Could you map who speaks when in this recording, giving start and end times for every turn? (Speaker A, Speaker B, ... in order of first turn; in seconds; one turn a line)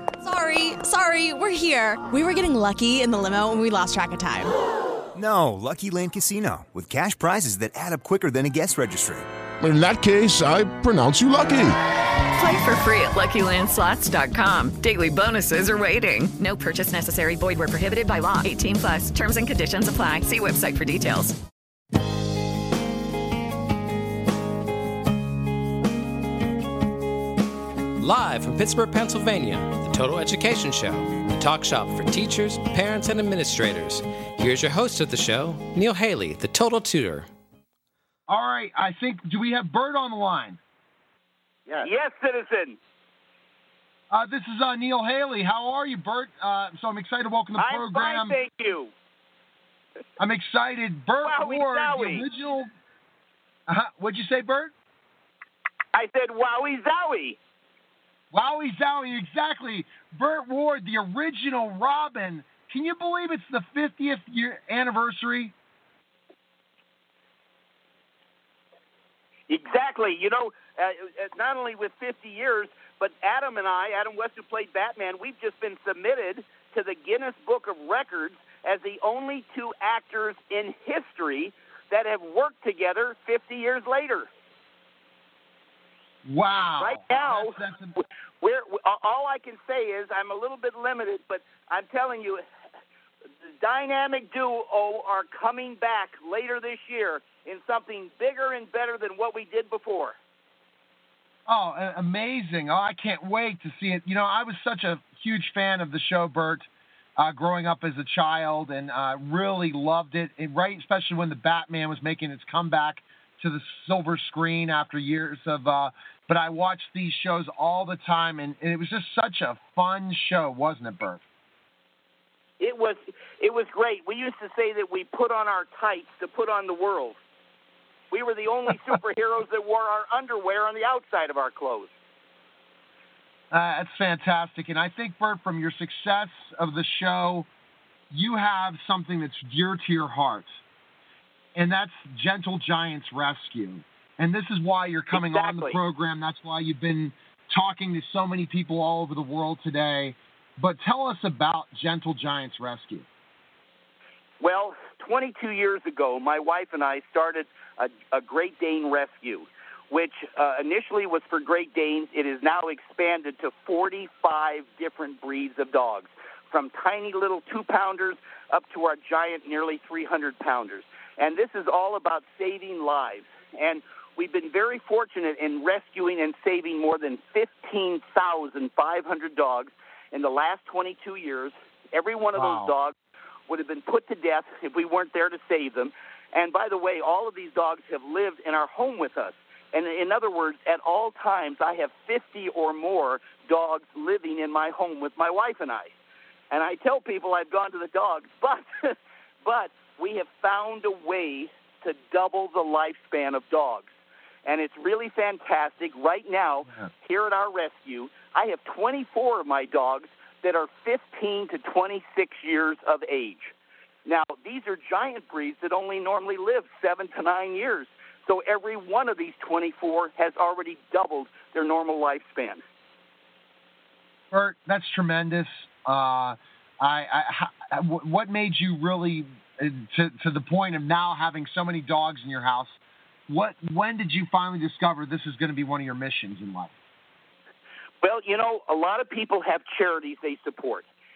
Speaker A: 0.2-4.5
Speaker B: 5.2-9.3
Speaker C: 9.6-11.8
Speaker D: 12.4-21.4
Speaker E: 28.0-37.3
Speaker F: 38.3-40.6
Speaker G: 41.8-42.8
Speaker F: 44.1-48.4
Speaker G: 47.6-48.9
Speaker F: 50.2-52.7
Speaker G: 51.2-52.2
Speaker F: 53.7-54.7
Speaker G: 55.9-57.4
Speaker F: 58.3-65.5
Speaker G: 69.5-84.3
Speaker F: 86.2-88.0
Speaker G: 86.8-87.6
Speaker G: 88.4-92.4
Speaker G: 93.5-100.2
Speaker F: 101.5-121.2
Speaker G: 122.6-127.2
Speaker G: 128.1-131.9
Speaker F: 133.5-137.5
Speaker F: 138.1-140.6
Speaker F: 141.6-153.1
Speaker G: 145.1-145.8
Speaker G: 154.4-182.9
Speaker F: 182.3-182.7
Speaker G: 183.5-195.9
Speaker G: 196.5-203.9
Speaker G: 204.5-213.5
Speaker G: 214.1-222.6
Speaker F: 224.3-232.8
Speaker F: 233.3-236.7
Speaker G: 238.0-240.9